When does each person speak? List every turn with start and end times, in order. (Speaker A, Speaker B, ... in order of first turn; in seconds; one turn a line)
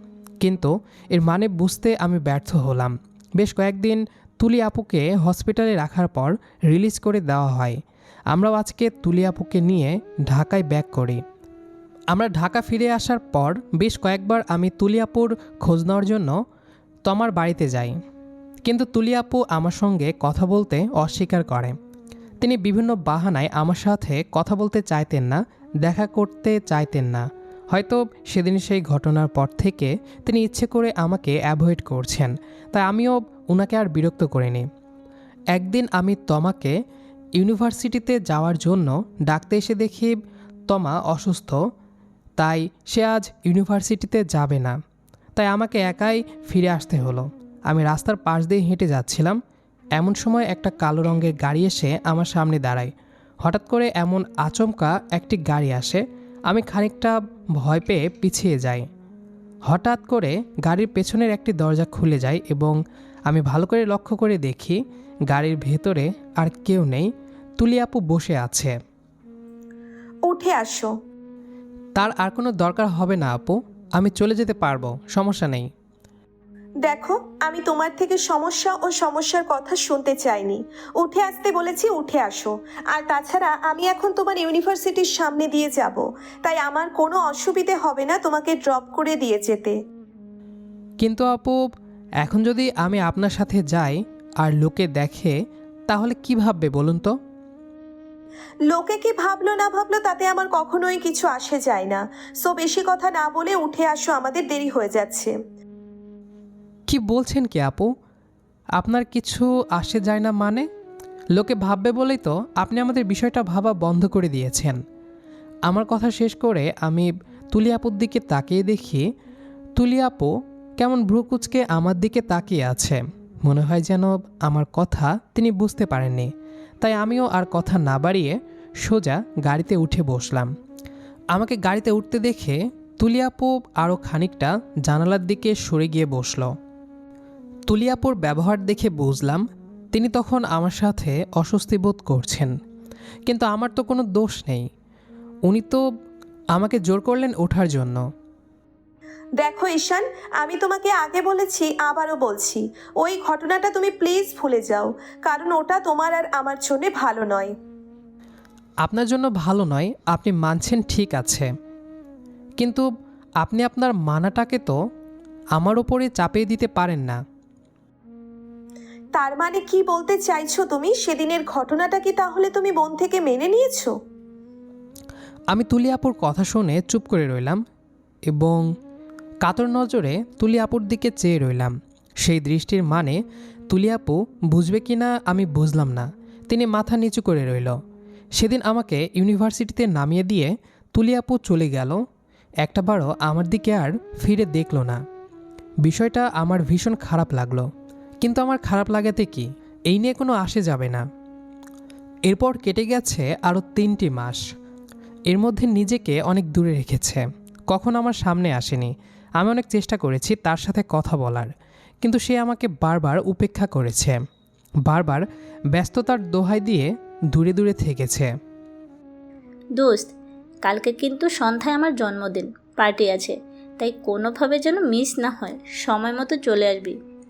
Speaker A: 0.4-11.2
Speaker A: 12.1-16.4
Speaker A: 17.1-18.0
Speaker A: 18.6-21.8
Speaker A: 22.4-34.7
Speaker A: 35.5-36.8
Speaker A: 37.4-41.6
Speaker A: 42.4-44.8
Speaker A: 45.4-49.4
Speaker A: 50.0-58.9
Speaker A: 59.7-68.8
Speaker B: 70.3-70.9
Speaker A: 72.0-75.7
Speaker B: 76.8-89.8
Speaker A: 91.0-91.6
Speaker A: 92.2-95.3
Speaker A: 95.9-97.1
Speaker B: 98.7-105.3
Speaker A: 106.9-107.9
Speaker A: 108.8-110.7
Speaker A: 111.3-114.8
Speaker A: 115.7-119.1
Speaker A: 119.8-130.5
Speaker A: 131.3-136.5
Speaker A: 137.7-142.5
Speaker A: 143.3-144.7
Speaker A: 145.5-145.8
Speaker A: 146.5-148.0
Speaker B: 149.4-157.5
Speaker A: 158.8-161.5
Speaker A: 162.6-162.9
Speaker A: 163.4-164.8
Speaker A: 165.5-167.2
Speaker B: 169.1-173.9
Speaker A: 175.5-177.6
Speaker A: 178.3-178.7
Speaker A: 179.4-187.8
Speaker A: 188.4-192.0
Speaker A: 192.6-195.0
Speaker A: 195.8-197.7
Speaker A: 198.2-201.0
Speaker A: 202.3-204.4
Speaker A: 205.3-214.2
Speaker A: 214.8-218.3
Speaker C: 219.8-220.1
Speaker C: 220.6-227.0